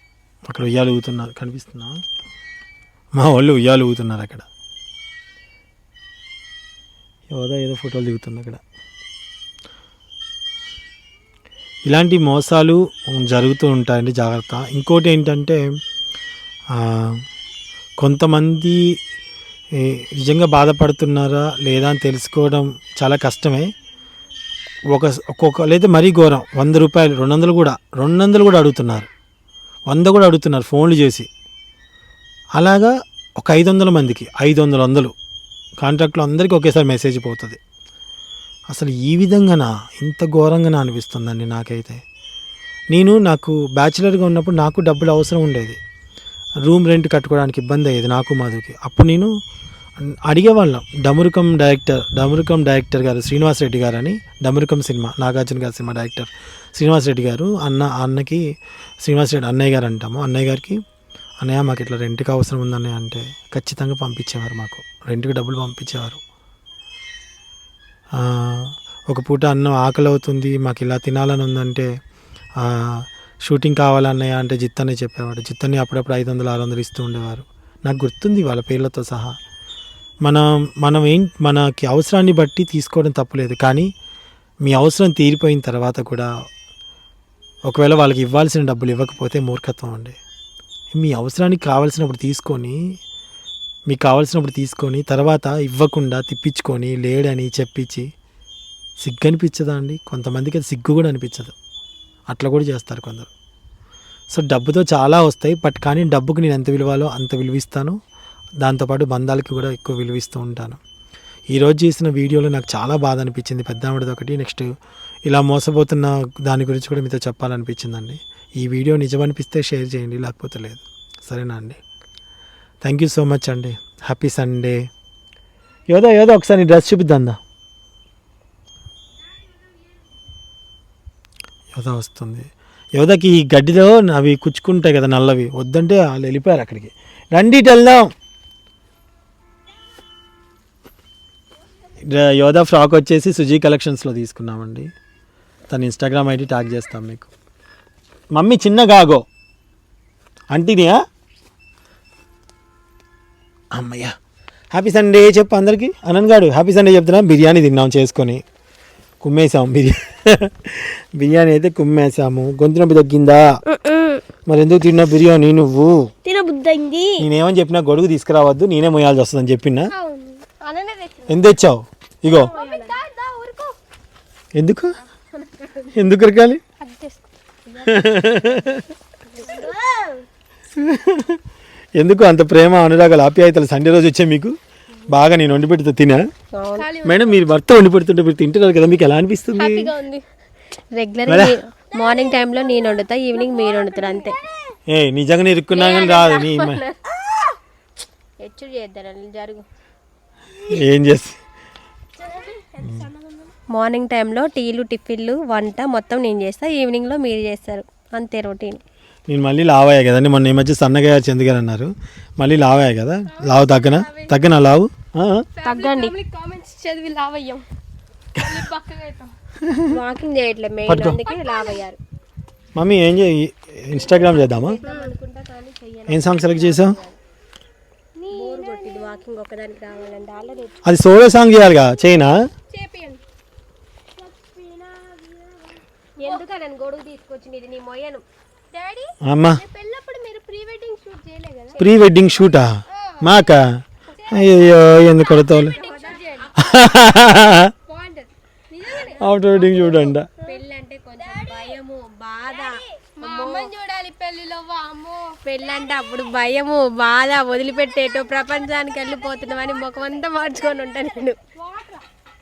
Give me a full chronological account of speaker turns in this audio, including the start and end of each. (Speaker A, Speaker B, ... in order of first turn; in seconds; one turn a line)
Speaker A: 0.5-2.0
Speaker A: 3.1-4.5
Speaker A: 7.3-8.6
Speaker A: 11.9-15.6
Speaker A: 16.7-17.2
Speaker A: 18.0-19.0
Speaker A: 19.8-23.7
Speaker A: 24.9-29.1
Speaker A: 29.9-31.3
Speaker A: 32.6-35.1
Speaker A: 35.8-37.6
Speaker A: 38.7-42.0
Speaker A: 42.9-45.8
Speaker A: 46.6-49.3
Speaker A: 50.0-58.4
Speaker A: 59.0-60.8
Speaker A: 61.4-66.2
Speaker A: 68.2-71.9
Speaker A: 72.6-79.3
Speaker A: 80.2-83.9
Speaker A: 84.6-86.3
Speaker A: 87.7-90.2
Speaker A: 90.9-92.8
Speaker A: 93.9-98.1
Speaker A: 99.0-101.5
Speaker A: 102.3-103.3
Speaker A: 104.3-108.0
Speaker A: 108.6-110.8
Speaker A: 111.5-114.7
Speaker A: 115.2-121.8
Speaker A: 122.8-124.9
Speaker A: 125.9-127.4
Speaker A: 131.8-138.1
Speaker A: 142.1-144.9
Speaker A: 145.7-147.3
Speaker A: 148.3-149.2
Speaker A: 150.5-151.0
Speaker A: 153.7-154.2
Speaker A: 154.7-158.4
Speaker A: 159.2-163.4
Speaker B: 163.7-164.2
Speaker A: 164.5-166.1
Speaker B: 166.3-166.6
Speaker C: 166.3-167.1
Speaker A: 167.2-169.9
Speaker B: 169.9-171.5
Speaker A: 171.3-172.5
Speaker B: 172.2-173.0
Speaker C: 172.5-173.8
Speaker A: 174.6-175.0
Speaker B: 175.3-175.9
Speaker A: 175.9-176.6
Speaker C: 176.8-177.2
Speaker B: 177.7-178.3
Speaker A: 177.8-178.9
Speaker B: 179.2-179.8
Speaker C: 179.4-180.2
Speaker A: 180.7-181.4
Speaker A: 182.0-184.6
Speaker A: 185.1-186.2
Speaker B: 186.5-186.9
Speaker C: 186.8-187.4
Speaker A: 187.0-189.9
Speaker B: 189.5-190.2
Speaker B: 190.9-194.4
Speaker A: 191.3-191.6
Speaker C: 191.9-194.8
Speaker A: 194.9-196.8
Speaker B: 195.7-197.2
Speaker B: 198.4-199.7
Speaker A: 200.6-201.4
Speaker C: 202.2-203.6
Speaker B: 202.2-202.5
Speaker B: 203.7-208.8
Speaker A: 209.3-215.5
Speaker C: 213.3-214.4
Speaker C: 215.5-217.7
Speaker B: 215.6-216.1
Speaker C: 218.3-219.3
Speaker B: 219.9-222.0
Speaker A: 220.9-221.2
Speaker C: 221.2-221.8
Speaker A: 222.8-224.8
Speaker B: 224.0-227.2
Speaker C: 224.8-225.2
Speaker A: 226.1-227.0
Speaker C: 228.2-229.2
Speaker B: 228.3-230.8
Speaker A: 230.8-232.4
Speaker C: 232.7-233.2
Speaker C: 234.2-236.4
Speaker B: 236.2-238.2
Speaker C: 238.7-241.8
Speaker A: 239.2-239.6
Speaker A: 241.8-245.8
Speaker C: 242.9-243.4
Speaker C: 244.1-246.8
Speaker B: 245.5-246.6
Speaker A: 246.6-247.7
Speaker C: 247.7-250.6
Speaker A: 248.9-250.3
Speaker B: 250.4-253.7
Speaker C: 251.2-251.8
Speaker C: 252.5-255.9
Speaker B: 255.4-261.4
Speaker C: 257.9-262.1